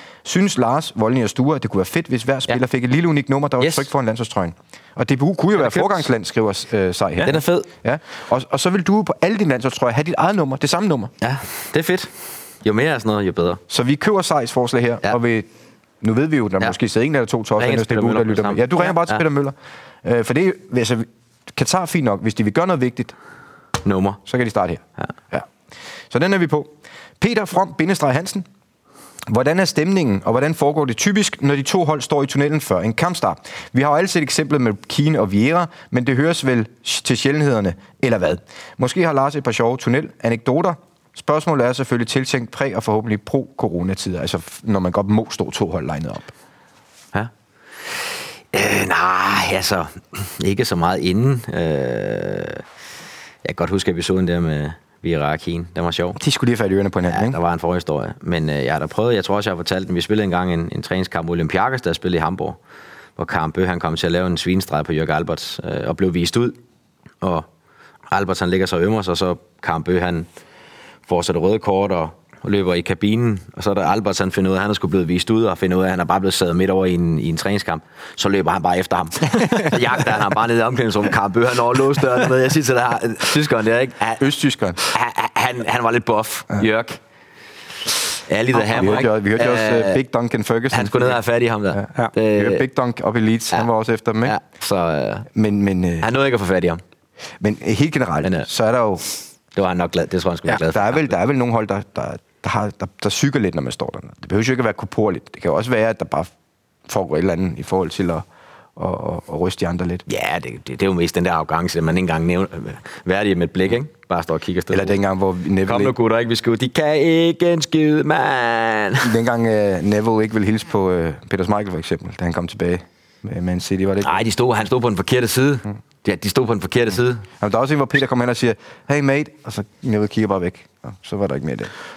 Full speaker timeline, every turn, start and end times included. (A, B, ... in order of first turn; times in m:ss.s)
0:00.2-0:11.1 A
0:03.6-0:03.9 B
0:05.6-0:06.1 B
0:07.2-0:07.7 B
0:11.2-0:12.1 B
0:12.6-0:13.6 B
0:13.7-0:15.5 A
0:16.0-0:23.2 A
0:17.6-0:19.2 B
0:23.8-0:24.2 B
0:24.2-0:25.5 A
0:26.1-0:28.5 A
0:29.3-0:46.3 A
0:47.9-0:52.6 B
0:53.4-0:56.2 B
0:56.2-0:57.4 A
0:57.1-1:02.6 B
1:03.2-1:06.6 B
1:07.2-1:07.5 B
1:08.1-1:10.3 B
1:11.1-1:24.2 B
1:24.2-1:24.8 A
1:24.8-1:27.0 B
1:28.3-1:30.0 B
1:28.6-1:31.2 A
1:30.7-1:32.6 B
1:31.7-1:34.4 A
1:34.2-1:35.3 B
1:35.4-1:36.1 A
1:36.0-1:36.8 B
1:37.4-1:39.1 A
1:39.6-1:41.1 B
1:40.6-1:46.3 A
1:46.9-1:50.0 A
1:50.1-1:55.0 B
1:54.7-1:56.0 A
1:55.6-1:59.1 B
1:59.0-2:04.2 A
2:04.0-2:07.2 B
2:07.4-2:11.7 A